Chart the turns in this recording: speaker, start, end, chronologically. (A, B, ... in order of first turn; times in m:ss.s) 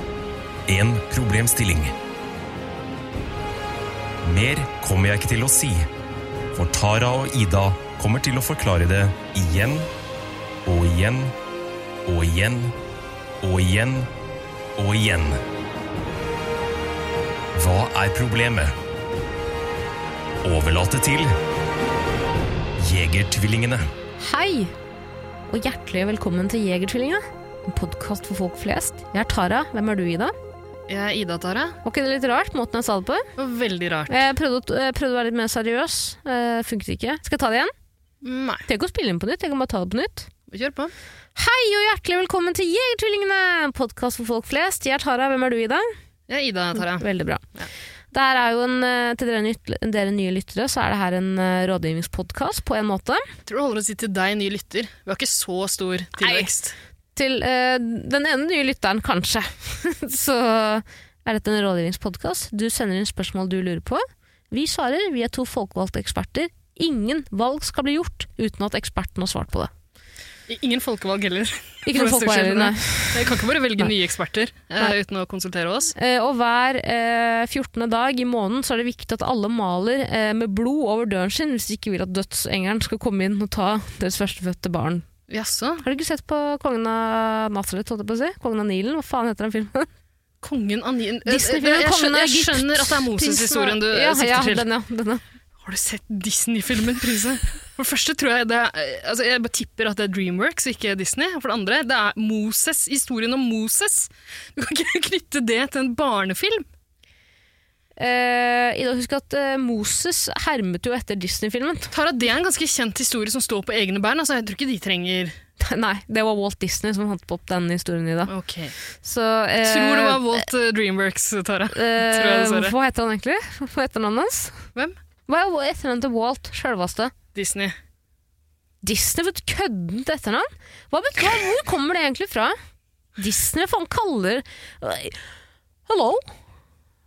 0:00.7-0:02.0 A
0:04.2-0:05.9 A
0:06.5-0:09.9 A
0:10.7-0:11.3 A
0:12.1-0:12.8 A
0:13.4-0:14.1 A
0:14.8-0:15.4 A
0:17.5-0:18.7 A
0:20.4-0:21.3 A
0:22.8-0:23.9 A
0:24.2-0:24.7 B
0:25.5-0:30.3 B
0:30.9-0:31.8 C
0:31.8-0:33.3 B
0:33.4-0:34.2 C
0:34.1-0:37.7 B
0:38.2-0:38.7 C
0:38.7-0:40.3 B
0:40.5-0:40.9 C
0:41.4-0:45.9 B
0:46.3-0:47.7 C
0:46.9-0:47.4 B
0:48.1-0:53.2 B
0:53.5-0:56.8 C
0:56.2-0:56.5 B
0:57.2-1:09.7 B
1:10.5-1:15.9 C
1:11.9-1:13.4 B
1:16.0-1:25.1 B
1:25.3-1:25.8 C
1:25.8-1:29.9 B
1:30.4-1:34.7 C
1:31.3-1:35.2 B
1:35.6-1:46.7 C
1:48.0-1:51.9 B
1:51.9-1:55.4 C
1:55.6-1:58.3 B
1:58.3-1:58.7 C
1:59.0-2:00.5 B
1:59.6-2:02.8 C
2:01.7-2:04.6 B
2:05.3-2:07.1 B
2:07.3-2:07.8 C
2:08.8-2:12.6 B
2:13.2-2:15.2 B
2:15.9-2:16.3 B